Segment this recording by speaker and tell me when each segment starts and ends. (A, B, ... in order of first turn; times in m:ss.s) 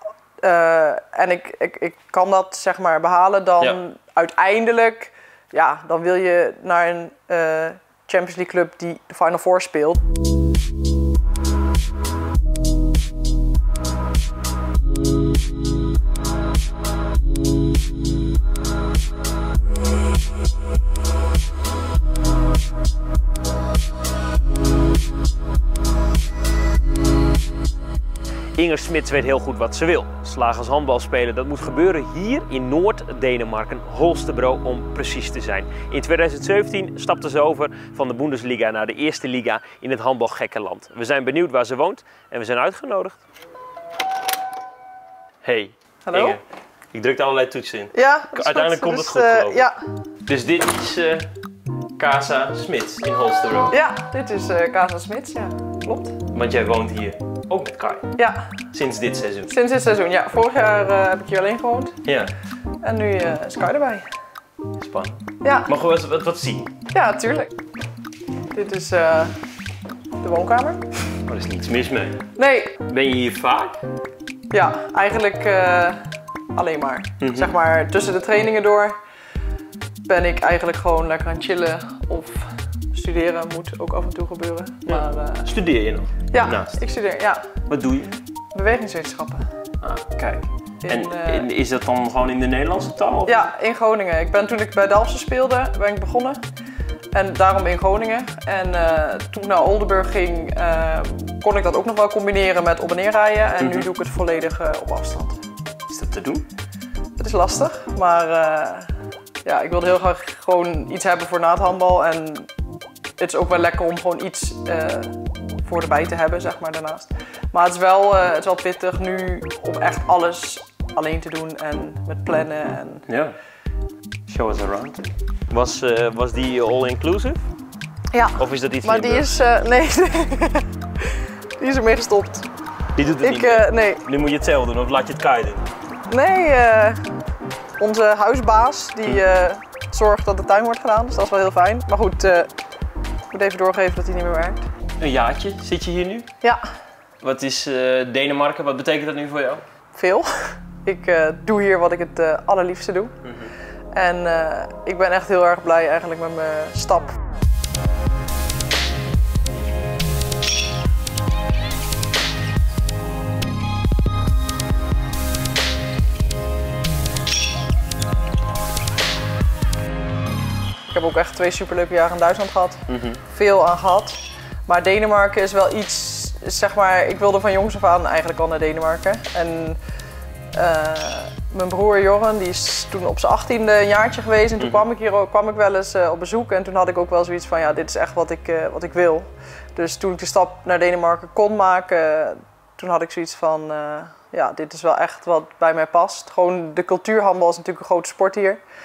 0:00.4-0:10.0 A
0:28.6-0:43.2 B
0:45.4-0:46.4 B
0:46.1-0:46.4 A
0:46.9-0:49.7 B
0:47.9-0:49.8 A
0:50.3-0:51.3 B
0:52.0-0:53.8 B
0:53.7-0:56.2 A
0:56.3-0:58.1 B
0:58.2-0:58.5 A
0:58.7-0:59.5 B
0:59.5-1:02.0 A
1:02.0-1:02.3 B
1:02.8-1:04.1 A
1:04.8-1:06.7 B
1:05.4-1:05.7 A
1:06.9-1:07.5 A
1:08.5-1:09.4 A
1:10.2-1:10.9 A
1:11.3-1:12.2 B
1:12.4-1:12.8 A
1:12.9-1:13.8 B
1:14.5-1:19.0 A
1:17.2-1:17.5 B
1:20.1-1:25.5 A
1:24.9-1:26.8 B
1:26.3-1:27.6 A
1:27.7-1:28.2 B
1:28.5-1:29.5 A
1:29.8-1:33.5 B
1:30.8-1:31.5 A
1:33.3-1:36.4 A
1:37.1-1:45.4 A
1:45.9-1:46.4 B
1:47.2-1:48.9 A
1:49.4-1:52.5 A
1:53.2-2:03.1 A
2:03.1-2:03.4 B
2:04.3-2:07.4 B
2:08.1-2:12.5 A
2:08.4-2:09.3 B
2:13.0-2:15.7 B
2:13.2-2:14.0 A
2:16.1-2:17.0 A
2:17.8-2:22.5 A
2:23.3-2:24.7 A
2:25.0-2:26.3 B
2:27.2-2:29.6 B
2:29.9-2:33.2 A
2:33.2-2:33.5 B
2:33.9-2:37.2 A
2:50.9-2:59.8 A
2:52.9-2:53.2 B
3:00.5-3:18.6 A